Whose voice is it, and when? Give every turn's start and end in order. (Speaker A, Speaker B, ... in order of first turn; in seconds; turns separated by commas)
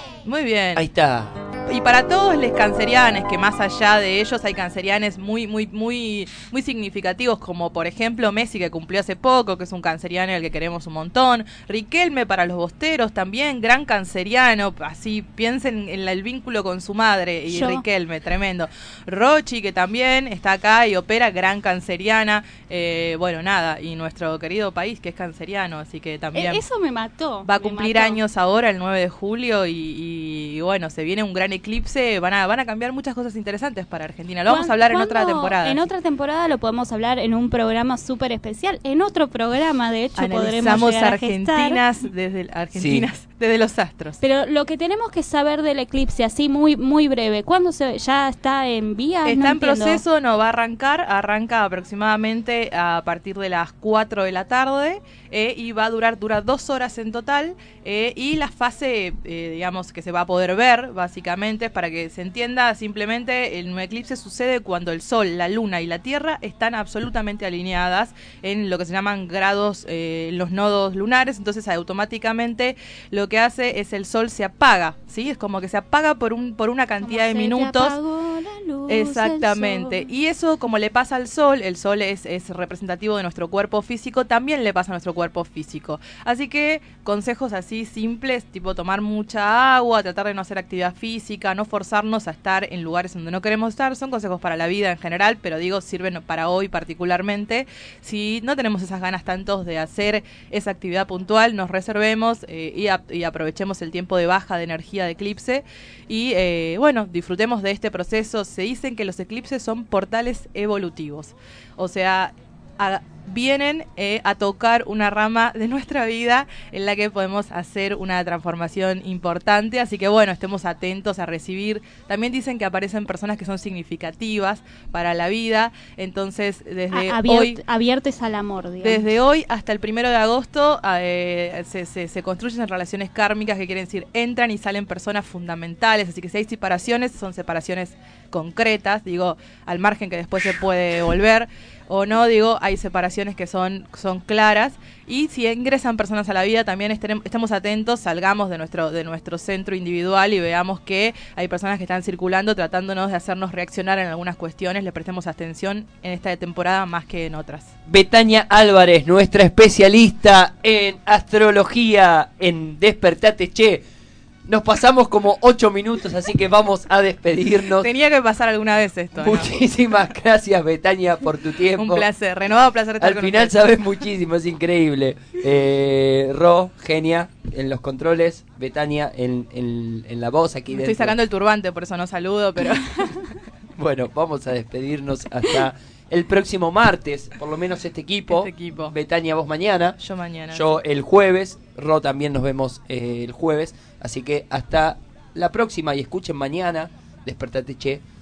Speaker A: 0.2-0.8, Speaker B: 0.8-1.4, Speaker A: 1.7-26.6, Speaker C: 17.5-17.8, Speaker C: 26.3-28.2, Speaker A: 27.4-35.9, Speaker C: 34.5-41.8, Speaker A: 40.2-44.2, Speaker B: 42.8-43.1, Speaker C: 44.2-50.0, Speaker A: 49.2-78.0, Speaker C: 77.0-80.1, Speaker A: 78.9-127.6, Speaker C: 126.9-129.1, Speaker A: 128.8-157.7, Speaker B: 157.9-163.8, Speaker B: 164.5-167.9, Speaker A: 167.8-169.5, Speaker B: 169.2-172.1, Speaker A: 171.8-173.6, Speaker B: 173.0-181.2, Speaker A: 180.7-183.1, Speaker B: 183.8-190.0, Speaker A: 188.3-188.9, Speaker A: 190.0-190.7, Speaker B: 190.5-198.0